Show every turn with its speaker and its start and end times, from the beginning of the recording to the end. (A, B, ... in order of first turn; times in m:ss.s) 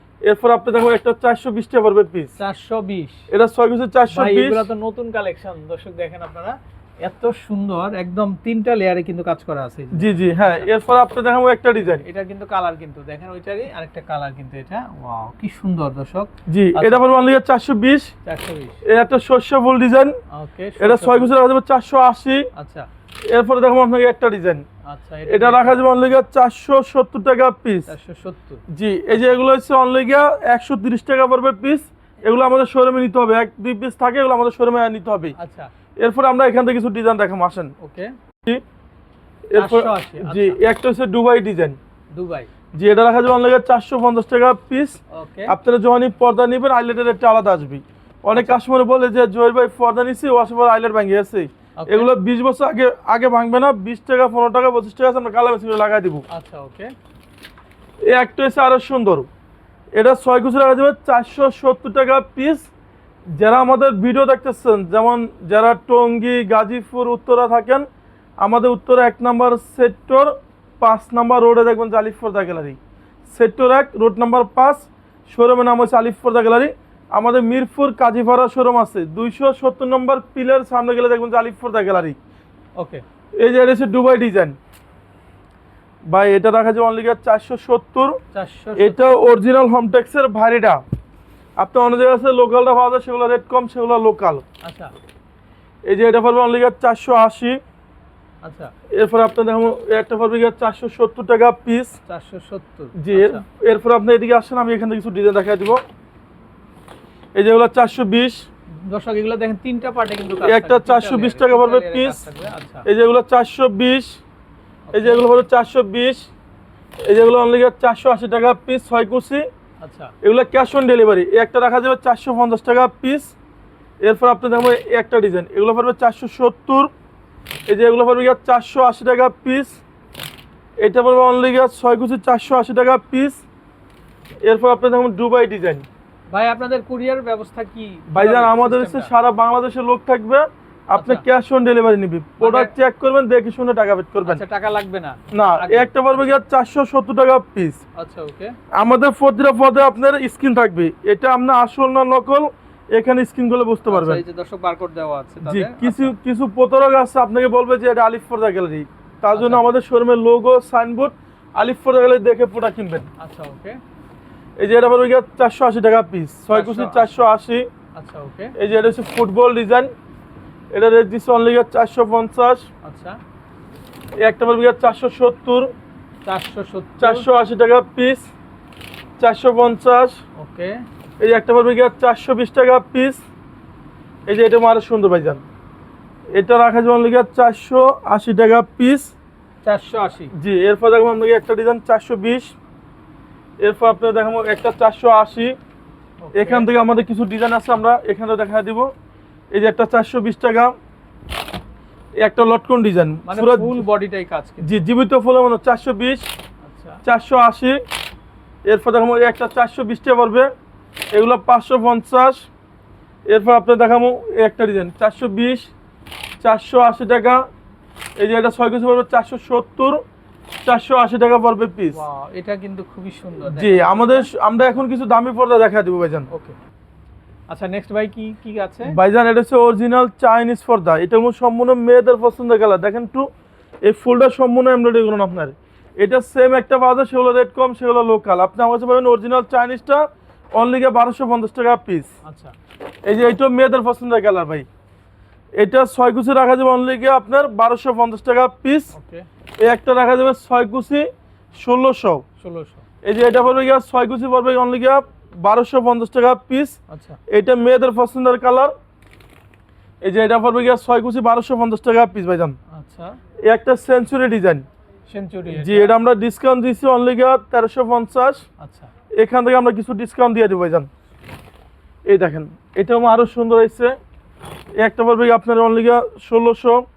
0:00.2-0:02.3 A
0:02.4-0:03.2 B
0:03.3-0:04.7 A
0:04.1-0:10.7 B
0:09.9-0:12.0 A
0:11.8-0:17.0 B
0:16.5-0:18.1 A
0:18.2-0:18.8 B
0:18.8-0:20.2 A
0:20.3-0:21.3 B
0:20.8-0:22.5 A
0:22.5-0:22.9 B
0:23.3-0:24.6 A
0:24.9-0:26.2 B
0:25.3-0:27.9 A
0:27.9-0:29.4 B
0:28.7-0:35.3 A
0:35.4-0:35.7 B
0:36.0-0:37.7 A
0:37.8-0:38.1 B
0:39.5-0:41.8 A
0:39.6-0:40.6 B
0:42.1-0:42.5 B
0:42.7-0:56.2 A
0:45.1-0:45.5 B
0:48.3-0:48.6 B
0:51.8-0:52.1 B
0:56.3-0:56.9 B
0:58.0-0:59.3 A
0:59.9-1:02.7 A
1:03.3-1:07.8 A
1:08.4-1:12.8 A
1:13.3-1:22.2 A
1:22.8-1:23.0 B
1:23.4-1:24.6 A
1:26.1-1:28.2 A
1:28.3-1:29.1 B
1:28.8-1:30.8 A
1:31.6-1:34.4 A
1:34.6-1:34.9 B
1:35.8-1:37.6 A
1:38.4-1:38.7 B
1:38.9-1:41.9 A
1:42.1-1:43.4 B
1:43.0-1:45.8 A
1:47.3-1:48.4 A
1:48.8-1:52.9 B
1:50.4-1:52.2 A
1:52.8-1:54.2 A
1:54.9-1:55.3 B
1:54.9-1:56.3 A
1:57.0-1:59.4 A
1:59.8-2:00.1 B
2:00.2-2:03.3 A
2:04.0-2:06.9 A
2:07.7-2:09.8 A
2:10.8-2:13.4 A
2:14.4-2:15.8 A
2:16.3-2:19.1 B
2:18.1-2:24.4 A
2:20.9-2:21.2 B
2:22.4-2:22.7 B
2:24.2-2:26.4 B
2:25.3-2:27.8 A
2:28.0-2:28.5 B
2:28.8-2:34.2 A
2:33.9-2:36.1 B
2:35.4-2:43.1 A
2:39.3-2:39.6 B
2:43.2-2:43.8 B
2:44.6-2:47.7 A
2:46.5-2:47.2 B
2:47.9-2:48.6 B
2:48.6-2:49.9 A
2:50.7-2:52.7 A
2:52.8-2:53.2 B
2:54.2-2:55.7 A
2:56.2-2:57.3 B
2:57.0-2:58.3 A
2:59.2-3:00.2 A
3:00.4-3:00.8 B
3:01.2-3:03.2 A
3:04.3-3:05.4 A
3:06.3-3:09.1 A
3:09.6-3:10.3 B
3:10.4-3:12.5 A
3:13.6-3:15.6 A
3:16.2-3:16.7 B
3:16.3-3:18.9 A
3:19.5-3:20.7 A
3:22.2-3:23.8 A
3:23.2-3:24.8 B
3:24.6-3:26.3 A
3:26.6-3:27.0 B
3:27.0-3:27.8 A
3:28.6-3:30.5 A
3:31.1-3:32.5 A
3:33.3-3:35.7 A
3:36.4-3:37.4 A
3:38.2-3:40.0 A
3:40.6-3:42.0 A
3:41.9-3:44.3 B
3:43.5-3:46.3 A
3:46.3-3:46.6 B
3:47.5-3:48.9 B
3:48.9-3:53.3 A
3:53.8-4:02.1 A
4:02.2-4:02.5 B
4:03.0-4:04.6 A
4:05.6-4:08.9 A
4:08.9-4:09.3 B
4:09.6-4:12.2 A
4:12.4-4:12.8 B
4:13.0-4:16.8 A
4:16.9-4:17.2 B
4:17.3-4:18.7 A
4:20.0-4:22.6 A
4:22.7-4:23.2 B
4:23.4-4:24.6 A
4:25.1-4:26.0 B
4:25.5-4:28.4 A
4:28.6-4:28.9 B
4:29.2-4:30.9 A
4:32.0-4:33.9 A
4:34.8-4:36.8 A